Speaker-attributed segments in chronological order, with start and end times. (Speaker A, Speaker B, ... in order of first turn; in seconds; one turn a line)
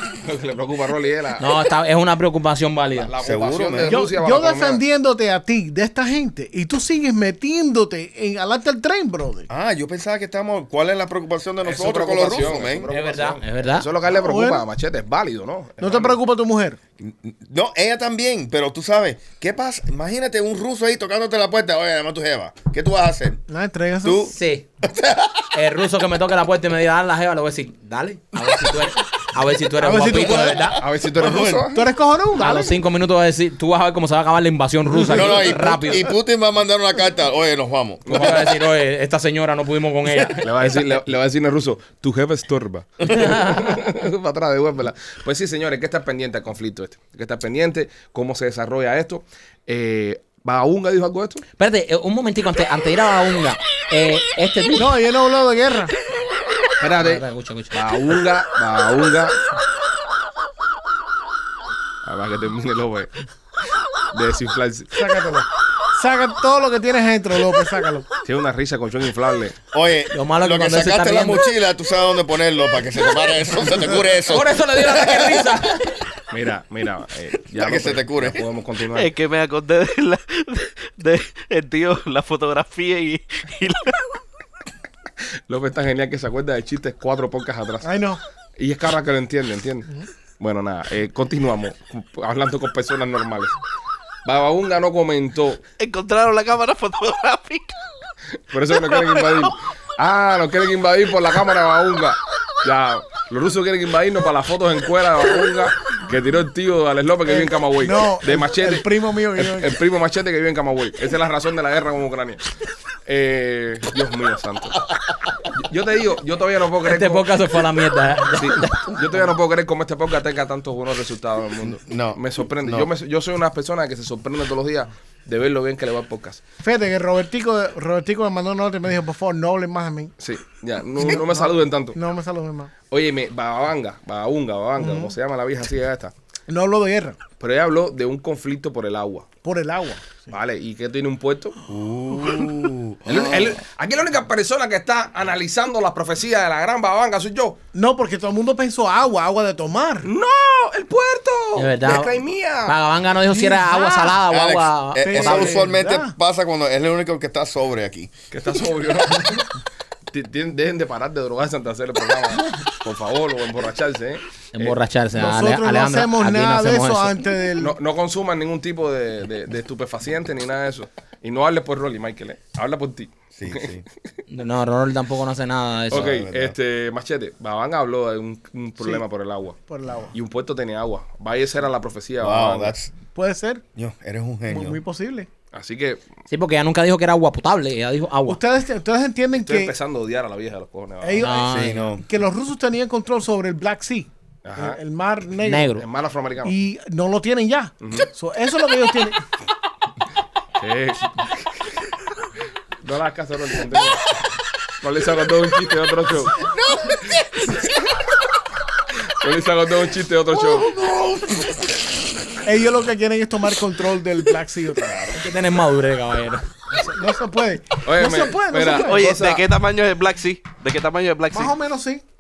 Speaker A: 0.2-1.6
Speaker B: 1.4-3.1
Speaker A: 3.0-4.8
Speaker C: 3.2-4.0
Speaker D: 3.9-9.5
Speaker C: 9.5-12.9
Speaker A: 11.6-16.2
Speaker B: 12.9-13.9
Speaker D: 14.1-14.6
Speaker D: 15.8-16.8
Speaker C: 17.0-23.4
Speaker D: 23.5-24.3
Speaker C: 24.0-25.5
Speaker B: 24.2-24.7
Speaker B: 25.5-30.8
Speaker D: 29.8-30.8
Speaker C: 30.4-31.8
Speaker A: 30.8-31.9
Speaker D: 31.7-32.8
Speaker B: 32.4-36.1
Speaker C: 35.0-38.5
Speaker A: 38.1-38.4
Speaker B: 38.1-40.8
Speaker A: 40.4-51.4
Speaker B: 43.1-43.8
Speaker B: 51.6-54.9
Speaker D: 54.8-55.9
Speaker A: 56.8-59.4
Speaker B: 57.0-57.8
Speaker A: 62.0-63.1
Speaker A: 64.1-65.0
Speaker D: 64.9-68.1
Speaker A: 68.2-69.6
Speaker C: 69.7-75.6
Speaker B: 70.1-71.4
Speaker B: 74.3-76.0
Speaker A: 76.3-79.1
Speaker C: 77.5-78.4
Speaker E: 78.9-84.2
Speaker A: 85.5-87.9
Speaker D: 87.8-88.2
Speaker A: 88.6-93.6
Speaker A: 94.2-95.6
Speaker E: 95.8-97.8
Speaker A: 98.5-112.5
Speaker E: 98.7-99.5
Speaker D: 107.3-109.8
Speaker A: 113.0-114.8
Speaker A: 115.5-117.3
Speaker B: 116.8-119.3
Speaker A: 118.3-126.4
Speaker C: 121.6-122.9
Speaker D: 126.6-130.1
Speaker A: 130.2-132.0
Speaker D: 131.0-132.7
Speaker A: 132.9-136.1
Speaker D: 134.8-135.1
Speaker D: 136.5-137.2
Speaker A: 137.4-139.3
Speaker D: 139.4-140.3
Speaker A: 140.3-141.6
Speaker C: 141.7-143.5
Speaker A: 143.1-147.6
Speaker D: 147.7-150.1
Speaker A: 150.0-152.7
Speaker B: 151.6-152.1
Speaker B: 152.7-155.7
Speaker D: 153.3-154.2
Speaker C: 154.3-158.1
Speaker D: 155.0-156.1
Speaker A: 158.3-159.6
Speaker A: 160.1-164.8
Speaker B: 164.5-167.1
Speaker D: 165.1-167.8
Speaker A: 167.6-173.8
Speaker C: 173.3-173.8
Speaker B: 174.3-176.1
Speaker A: 175.9-179.6
Speaker C: 175.9-176.6
Speaker D: 179.7-180.1
Speaker A: 180.1-182.7
Speaker C: 182.2-182.9
Speaker D: 183.1-183.6
Speaker C: 183.7-184.8
Speaker D: 184.5-185.3
Speaker A: 185.5-186.0
Speaker B: 186.3-188.4
Speaker D: 188.3-189.7
Speaker A: 189.4-191.3
Speaker D: 191.0-195.7
Speaker B: 191.2-191.8
Speaker C: 191.5-192.1
Speaker A: 194.4-194.8
Speaker B: 195.4-195.8
Speaker A: 195.8-196.5
Speaker D: 196.4-199.2
Speaker A: 197.8-198.1
Speaker A: 200.6-201.3
Speaker A: 202.8-204.2
Speaker A: 204.8-206.4
Speaker C: 206.8-207.1
Speaker A: 209.1-210.7
Speaker E: 210.7-211.4
Speaker D: 212.4-215.2
Speaker B: 215.1-216.5
Speaker D: 216.8-219.1
Speaker A: 217.8-219.4
Speaker E: 218.7-221.6
Speaker D: 221.3-222.0